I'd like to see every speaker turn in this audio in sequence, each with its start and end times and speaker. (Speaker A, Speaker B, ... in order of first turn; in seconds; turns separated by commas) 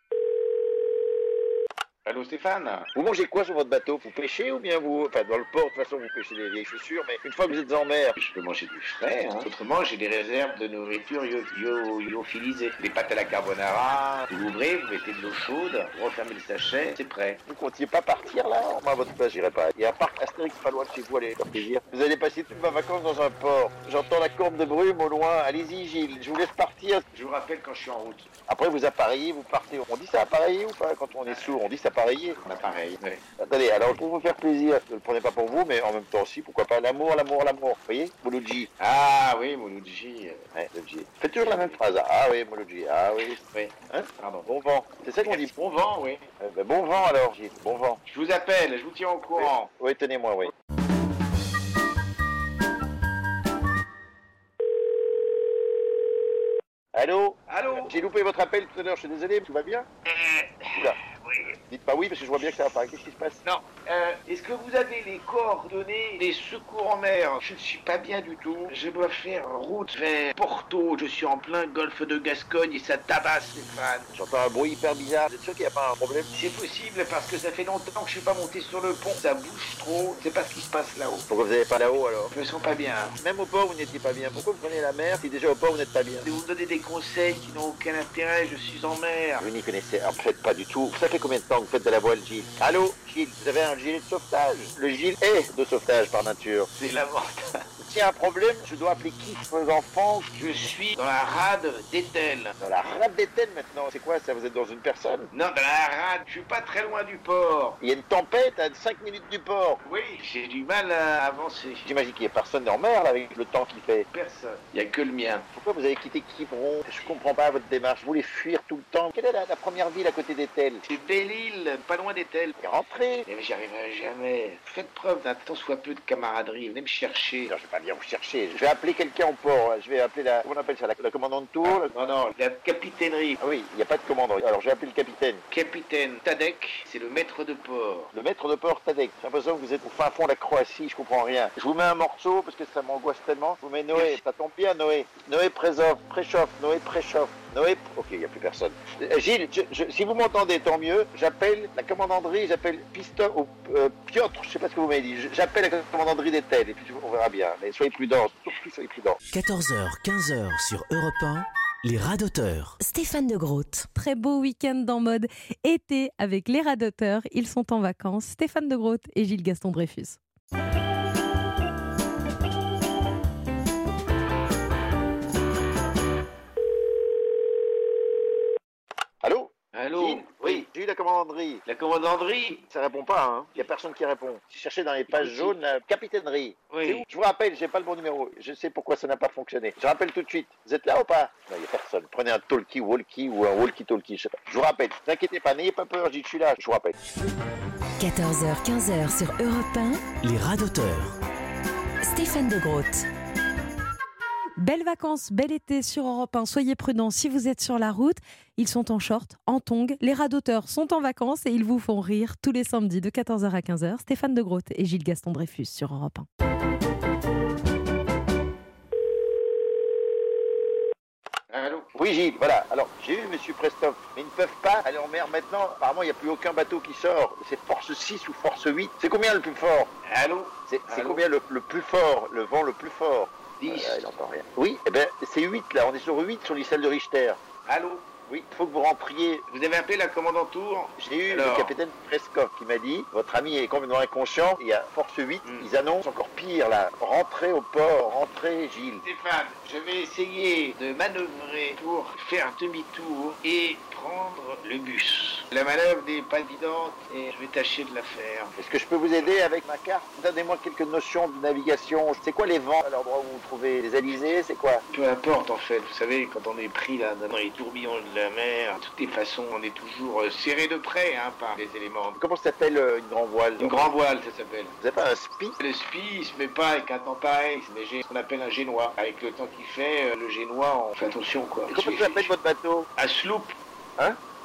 Speaker A: 2.0-2.9, Speaker B: 2.9-8.2, Speaker A: 8.2-17.4, Speaker B: 17.5-27.0, Speaker A: 27.1-28.3, Speaker B: 28.5-32.4, Speaker A: 31.3-31.7, Speaker A: 32.4-33.2, Speaker B: 33.4-38.7, Speaker A: 38.8-40.4, Speaker B: 40.5-45.5, Speaker A: 41.4-41.8, Speaker A: 43.5-44.5, Speaker A: 45.2-46.3, Speaker B: 46.4-48.0, Speaker A: 48.1-49.7, Speaker B: 49.4-50.5, Speaker B: 56.9-59.9, Speaker A: 57.5-58.0, Speaker A: 60.1-61.5, Speaker B: 61.7-63.4, Speaker A: 63.4-74.1, Speaker B: 74.1-76.3, Speaker A: 76.3-81.3, Speaker B: 81.3-82.3, Speaker A: 82.3-83.2, Speaker B: 83.2-86.3, Speaker A: 86.2-89.5, Speaker B: 89.4-96.7, Speaker A: 96.8-97.5, Speaker B: 97.8-100.3, Speaker A: 100.3-102.6, Speaker B: 102.6-105.3, Speaker A: 105.3-107.8, Speaker B: 107.8-109.8, Speaker A: 109.8-112.0, Speaker B: 111.8-114.1, Speaker A: 114.1-115.5, Speaker B: 115.5-120.8, Speaker A: 120.8-122.6, Speaker B: 122.6-123.3, Speaker A: 123.3-127.5, Speaker B: 127.5-131.9, Speaker A: 131.6-133.4, Speaker B: 133.4-135.4, Speaker A: 135.5-138.1, Speaker B: 138.1-159.2, Speaker A: 143.9-144.2, Speaker C: 159.3-162.8, Speaker D: 162.8-163.9, Speaker E: 163.9-170.2, Speaker B: 179.2-181.6, Speaker A: 179.7-180.7, Speaker A: 181.7-182.7, Speaker B: 182.7-197.0, Speaker A: 185.1-185.6, Speaker A: 186.7-187.1, Speaker D: 198.0-200.1, Speaker C: 200.2-201.2, Speaker D: 202.0-203.1, Speaker E: 204.6-216.3, Speaker A: 221.5-221.9, Speaker B: 221.9-229.9, Speaker A: 230.1-231.3, Speaker B: 230.7-237.4, Speaker A: 233.6-234.2, Speaker A: 237.7-238.1, Speaker B: 238.3-239.4, Speaker A: 239.5-241.8, Speaker B: 241.0-249.1, Speaker A: 249.0-258.6, Speaker B: 258.6-264.9, Speaker A: 264.9-272.2, Speaker B: 272.2-273.9, Speaker A: 273.6-274.8, Speaker B: 274.8-275.6, Speaker A: 275.6-282.3, Speaker B: 281.7-282.9, Speaker A: 283.0-283.6